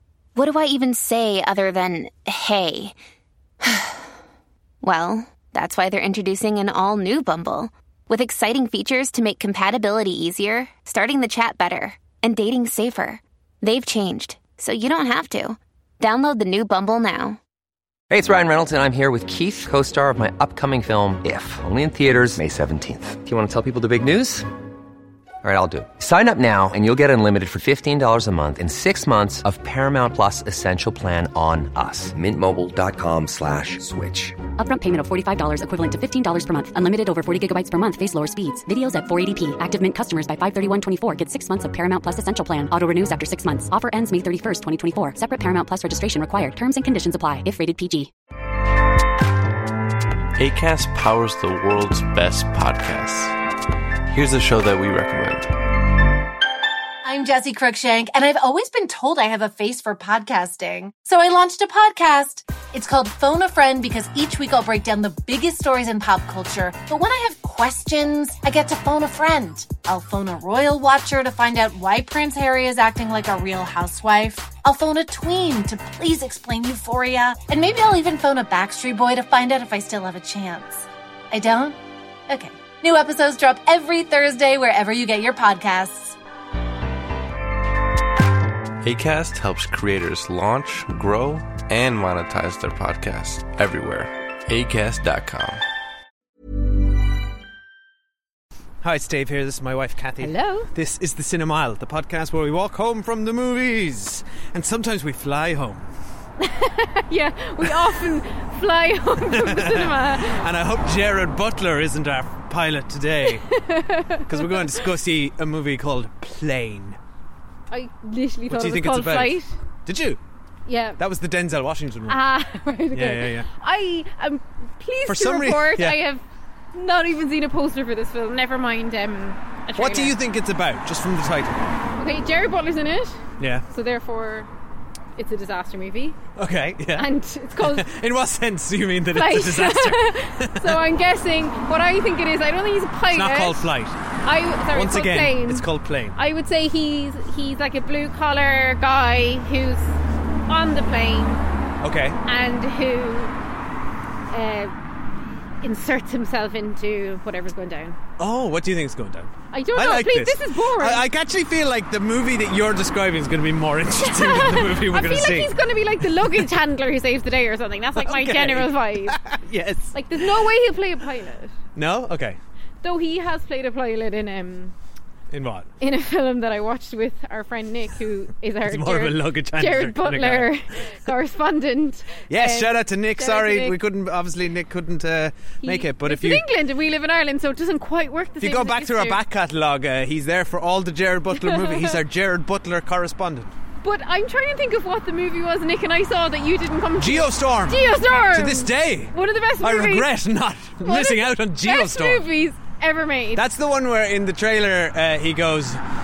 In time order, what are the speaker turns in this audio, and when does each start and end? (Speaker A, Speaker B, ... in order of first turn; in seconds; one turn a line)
Speaker A: 0.3-3.0
Speaker A: 3.6-4.1
Speaker A: 4.8-17.4
Speaker B: 18.1-24.5
Speaker B: 25.4-34.4
Speaker C: 34.6-48.1
Speaker D: 50.4-53.4
Speaker D: 54.1-55.5
Speaker E: 57.0-81.8
Speaker E: 82.3-86.2
Speaker D: 88.8-95.6
Speaker F: 98.8-105.9
Speaker G: 100.2-100.7
Speaker G: 106.4-110.5
Speaker F: 107.6-108.0
Speaker F: 109.2-113.4
Speaker G: 113.3-114.9
Speaker F: 114.3-117.0
Speaker G: 117.7-119.5
Speaker F: 118.5-120.2
Speaker G: 120.7-121.0
Speaker F: 121.0-122.2
Speaker G: 122.1-130.2
Speaker F: 122.9-123.5
Speaker F: 125.1-126.0
Speaker F: 129.8-131.7
Speaker G: 132.0-134.5
Speaker F: 133.4-133.7
Speaker G: 135.2-136.2
Speaker F: 136.4-140.8
Speaker G: 136.9-137.9
Speaker G: 139.1-143.7
Speaker F: 143.1-144.0
Speaker G: 144.2-151.4
Speaker F: 144.7-146.2
Speaker F: 151.8-152.2
Speaker G: 152.3-153.3
Speaker G: 154.3-154.7
Speaker G: 155.6-158.0
Speaker F: 158.2-165.5
Speaker G: 159.5-161.1
Speaker G: 164.0-169.2
Speaker F: 166.2-166.5
Speaker F: 168.0-170.4
Speaker G: 169.9-171.5
Speaker F: 171.8-172.4
Speaker G: 172.8-174.7
Speaker F: 175.3-175.7
Speaker G: 175.8-183.8
Speaker F: 178.7-180.5
Speaker F: 182.3-186.4
Speaker G: 185.6-189.2
Speaker F: 188.4-193.5
Speaker G: 191.4-192.0
Speaker G: 193.8-200.1
Speaker F: 197.0-202.3
Speaker G: 200.8-203.4
Speaker F: 203.3-205.8